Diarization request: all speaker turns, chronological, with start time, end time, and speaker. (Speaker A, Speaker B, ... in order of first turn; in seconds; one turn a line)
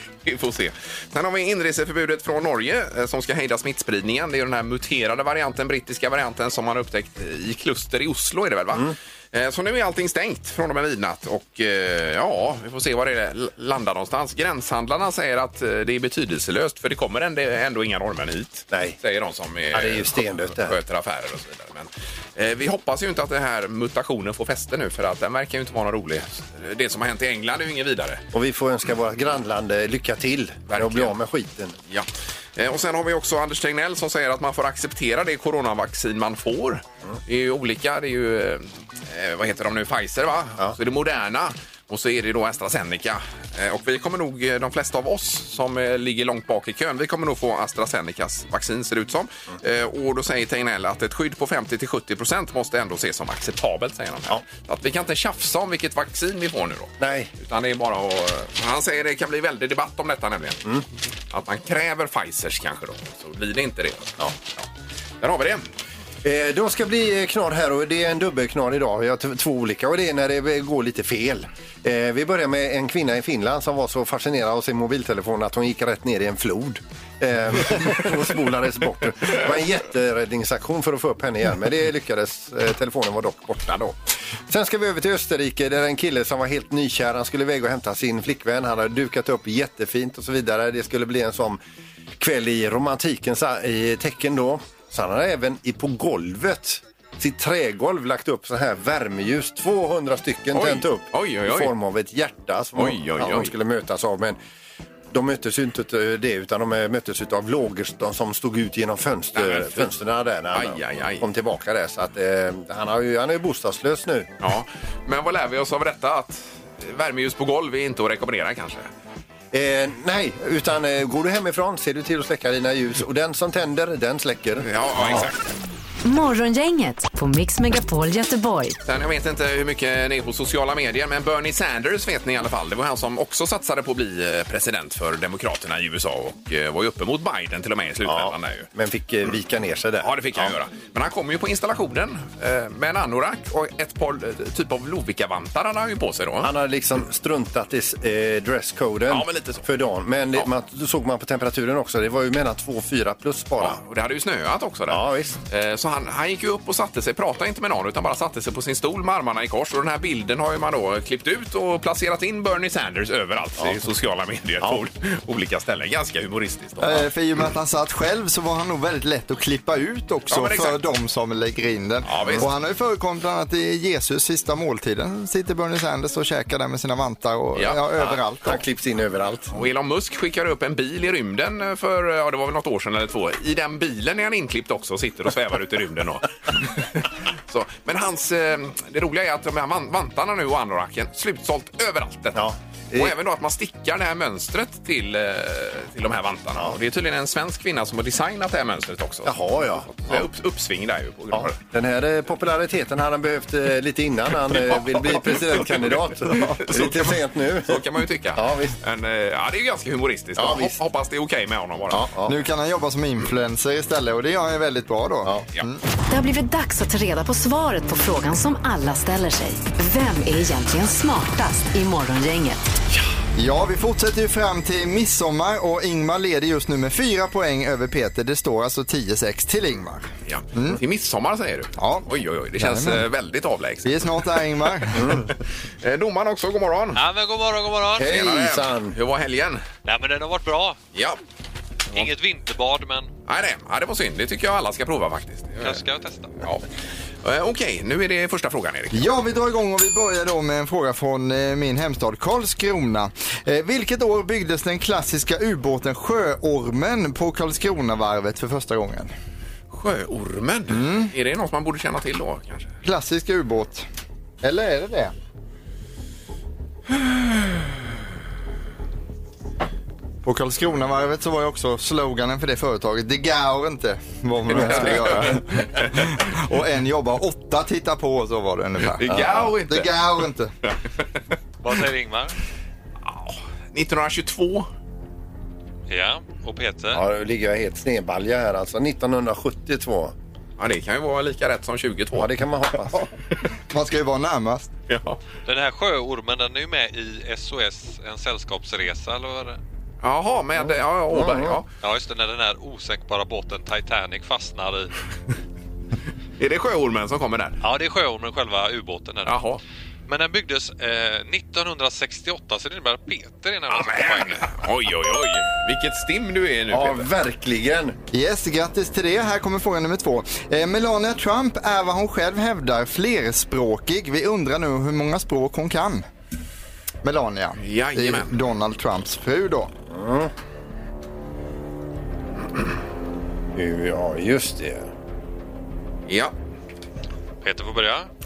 Speaker A: 0.2-28.2
Speaker B: 18.7-19.0
Speaker B: 19.7-20.8
Speaker B: 28.3-31.7
Speaker A: 30.7-31.1
Speaker A: 31.9-60.6
Speaker B: 57.0-57.3
Speaker A: 61.3-64.7
Speaker A: 65.2-65.6
Speaker B: 66.2-83.9
Speaker B: 84.5-91.6
Speaker B: 92.2-104.4
Speaker A: 100.5-101.7
Speaker A: 102.8-103.5
Speaker B: 105.1-114.3
Speaker A: 109.3-109.9
Speaker A: 110.5-111.2
Speaker A: 114.4-118.9
Speaker B: 119.5-125.3
Speaker A: 124.6-125.4
Speaker C: 126.0-128.8
Speaker A: 128.8-138.7
Speaker B: 138.0-140.5
Speaker A: 140.0-146.5
Speaker B: 146.4-153.8
Speaker A: 149.1-149.7
Speaker A: 153.6-167.1
Speaker B: 154.9-155.4
Speaker D: 166.8-178.6
Speaker A: 170.3-170.8
Speaker A: 172.0-172.5
Speaker A: 177.5-177.8
Speaker B: 178.1-179.5
Speaker A: 179.5-201.6
Speaker B: 192.3-193.1
Speaker B: 199.2-200.3
Speaker B: 201.3-208.8
Speaker A: 204.5-212.1
Speaker B: 210.4-210.8
Speaker B: 211.9-212.3
Speaker D: 212.3-215.8
Speaker C: 216.1-222.7
Speaker D: 223.3-230.8
Speaker A: 230.3-234.2
Speaker D: 231.8-232.1
Speaker D: 232.6-233.0
Speaker D: 233.8-235.1
Speaker B: 234.9-235.3
Speaker A: 235.8-237.0
Speaker E: 236.9-238.1
Speaker B: 238.0-238.9
Speaker A: 238.0-239.6
Speaker E: 239.8-240.8
Speaker A: 240.9-241.2
Speaker E: 241.9-243.1
Speaker A: 243.2-245.8
Speaker E: 245.6-246.3
Speaker A: 247.2-249.1
Speaker D: 248.9-259.1
Speaker A: 259.7-262.7
Speaker D: 260.7-261.1
Speaker D: 262.8-263.9
Speaker D: 264.4-265.1
Speaker D: 270.2-280.5
Speaker A: 274.5-275.4
Speaker B: 274.6-275.0
Speaker A: 278.9-279.9
Speaker E: 281.6-282.3
Speaker A: 283.0-284.7
Speaker E: 285.9-287.0
Speaker B: 286.9-290.1
Speaker A: 290.6-292.3
Speaker B: 292.1-293.0
Speaker D: 293.7-294.7
Speaker A: 294.9-295.2
Speaker E: 295.4-299.6
Speaker A: 300.0-301.7
Speaker B: 301.1-301.6
Speaker E: 301.8-304.9
Speaker A: 306.4-307.6
Speaker E: 307.6-309.4
Speaker A: 309.2-309.6
Speaker E: 310.1-314.6
Speaker A: 313.7-317.1
Speaker B: 316.7-317.9
Speaker D: 318.1-326.1
Speaker D: 327.0-329.7
Speaker A: 327.6-328.3
Speaker B: 329.9-330.3
Speaker B: 333.5-334.9
Speaker A: 336.1-336.3
Speaker E: 337.4-338.1